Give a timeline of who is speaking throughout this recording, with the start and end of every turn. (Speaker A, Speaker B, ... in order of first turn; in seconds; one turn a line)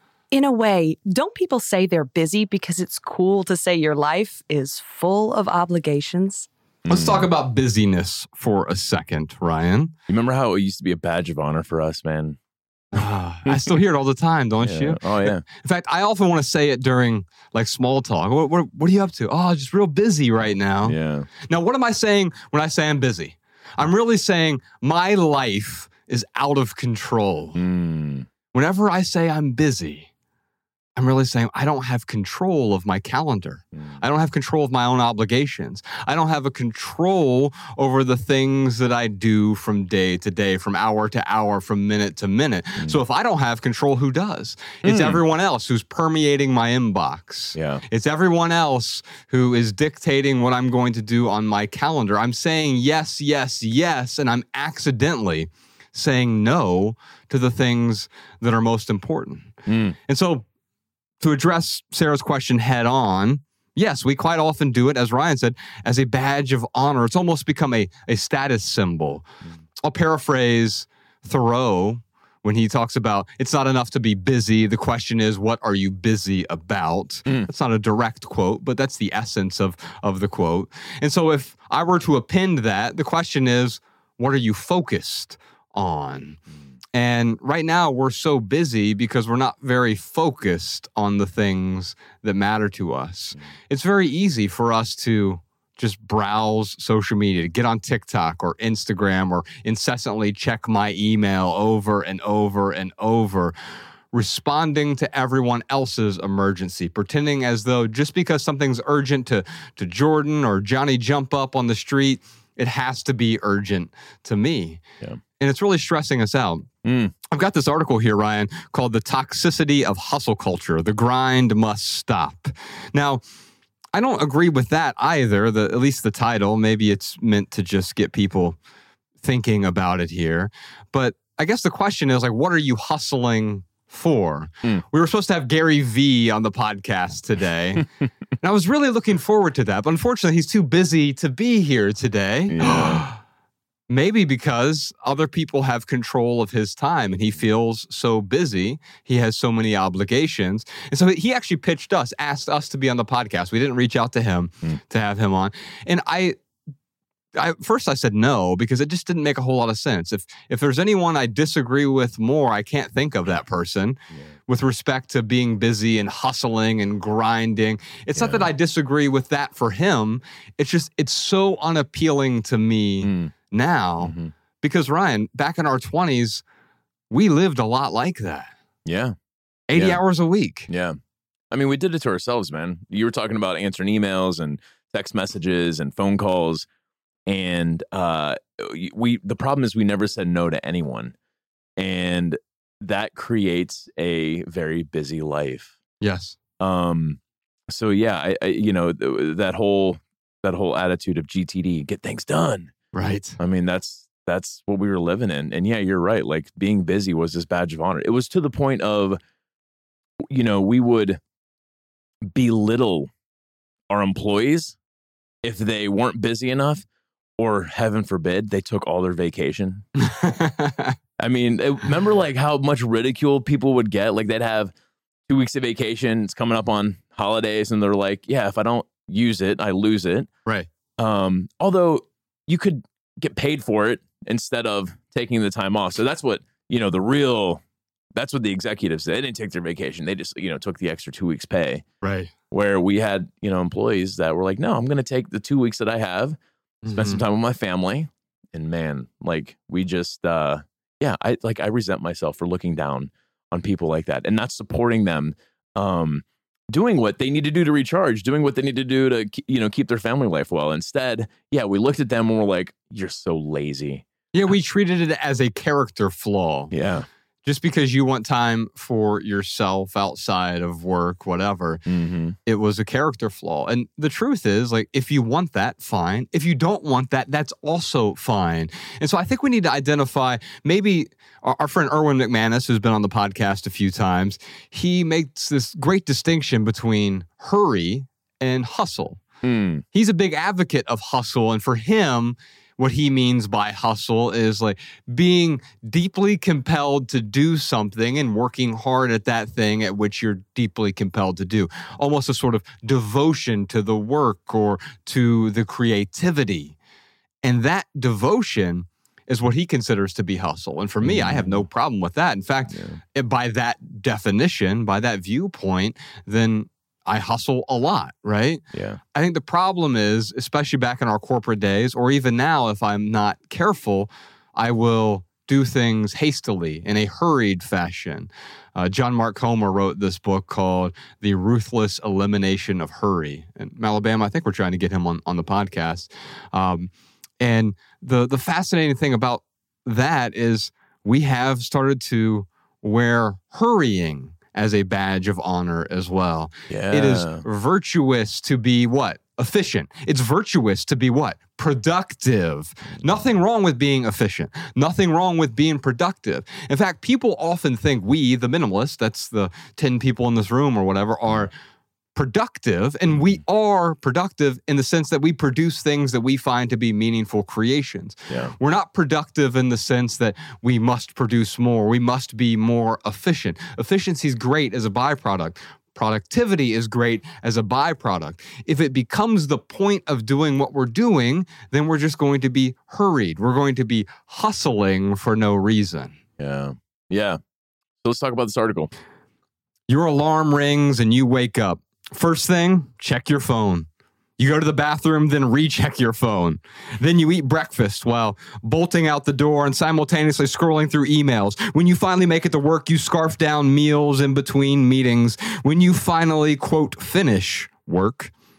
Speaker A: 0.3-6.5
Speaker B: 6.8-7.2
Speaker C: 6.9-9.9
Speaker B: 10.1-12.4
Speaker C: 12.9-27.6
Speaker B: 13.5-13.7
Speaker B: 14.6-15.4
Speaker B: 20.8-21.3
Speaker B: 27.6-28.3
Speaker C: 28.5-30.1
Speaker C: 31.0-59.5
Speaker B: 33.7-34.0
Speaker B: 44.8-45.2
Speaker B: 47.5-47.8
Speaker B: 59.7-60.0
Speaker C: 60.1-60.5
Speaker C: 61.2-69.3
Speaker C: 69.8-86.4
Speaker C: 86.9-103.5
Speaker C: 104.1-114.8
Speaker C: 115.4-116.7
Speaker B: 116.8-117.1
Speaker C: 117.3-123.2
Speaker C: 123.9-128.6
Speaker C: 129.2-137.8
Speaker C: 138.4-143.2
Speaker B: 142.5-143.1
Speaker C: 143.9-156.4
Speaker C: 157.4-176.4
Speaker B: 168.2-168.5
Speaker B: 173.0-173.3
Speaker B: 174.0-174.3
Speaker C: 177.1-178.5
Speaker B: 178.8-179.2
Speaker C: 179.7-180.7
Speaker B: 179.8-180.0
Speaker B: 180.7-181.0
Speaker B: 181.5-186.7
Speaker B: 187.3-191.2
Speaker B: 191.8-195.7
Speaker C: 196.0-196.4
Speaker B: 196.6-202.7
Speaker C: 202.9-203.4
Speaker B: 203.4-209.2
Speaker B: 210.3-211.2
Speaker B: 212.2-213.1
Speaker B: 213.9-214.8
Speaker B: 215.4-216.8
Speaker B: 217.4-219.9
Speaker C: 220.0-220.9
Speaker B: 221.2-224.7
Speaker B: 225.3-230.3
Speaker B: 231.0-237.6
Speaker B: 238.1-241.8
Speaker C: 242.0-242.3
Speaker B: 242.5-246.4
Speaker C: 246.8-247.2
Speaker B: 246.9-264.0
Speaker C: 264.3-266.7
Speaker B: 266.7-267.1
Speaker C: 267.4-271.8
Speaker B: 271.9-272.4
Speaker C: 272.5-289.2
Speaker B: 289.4-289.8
Speaker C: 289.9-306.8
Speaker C: 307.4-318.6
Speaker B: 311.0-311.7
Speaker B: 312.7-313.0
Speaker B: 318.7-319.0
Speaker C: 319.1-361.5
Speaker B: 346.7-347.4
Speaker B: 352.9-353.2
Speaker C: 362.1-386.2
Speaker B: 363.1-363.4
Speaker B: 368.3-368.5
Speaker B: 386.4-387.4
Speaker B: 388.0-388.9
Speaker C: 389.9-393.9
Speaker C: 394.4-408.3